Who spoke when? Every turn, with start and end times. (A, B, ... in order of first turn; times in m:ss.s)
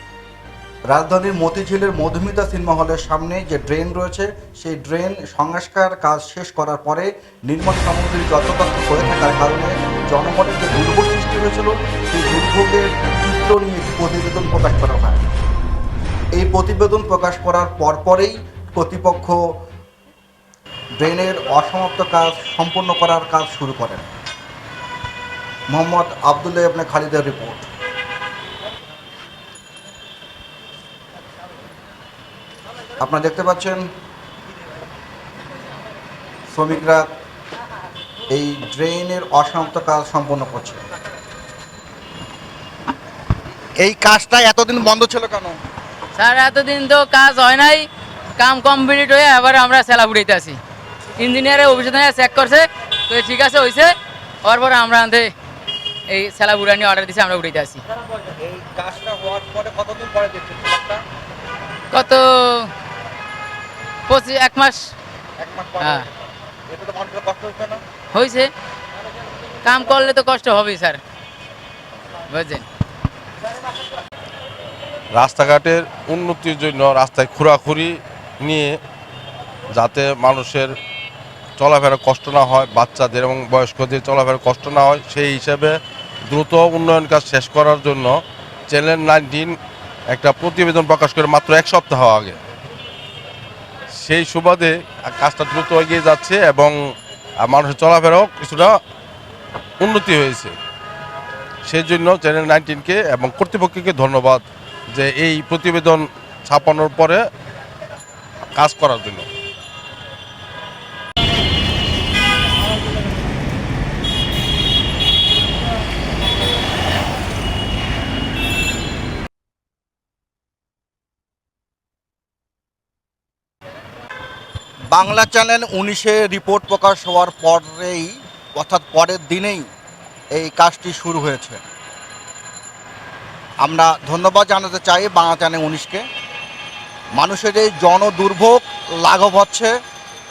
0:00.9-0:15.2 A
0:16.3-0:19.4 A
0:21.0-0:24.1 A
0:25.7-0:27.7 A
0:33.0-0:33.9 A
0:36.5-0:37.0 A
0:38.3-0:40.8 A
0:43.8-0:45.6 A
0:46.2-0:50.6 B
0:51.2-0:53.9 B
0:54.4-0:55.3 B
0:56.1-0:57.8 B
0:58.4-1:01.0 A
1:01.9-1:02.7 B
1:04.1-1:04.9 B
1:05.4-1:06.1 A
1:05.8-1:06.0 B
1:06.7-1:07.8 A
1:08.1-1:08.5 B
1:09.6-1:11.0 B
1:12.3-1:12.6 B
1:15.2-1:18.7 C
1:19.7-1:20.7 C
1:21.6-1:25.8 C
1:26.3-1:28.2 C
1:28.7-1:29.5 C
1:30.1-1:32.4 C
1:34.0-1:36.7 C
1:37.4-1:38.7 C
1:39.8-1:40.5 C
1:41.7-1:47.2 C
1:48.6-1:49.3 C
2:04.9-2:09.7 A
2:10.3-2:11.6 A
2:13.6-2:16.0 A
2:17.1-2:19.7 A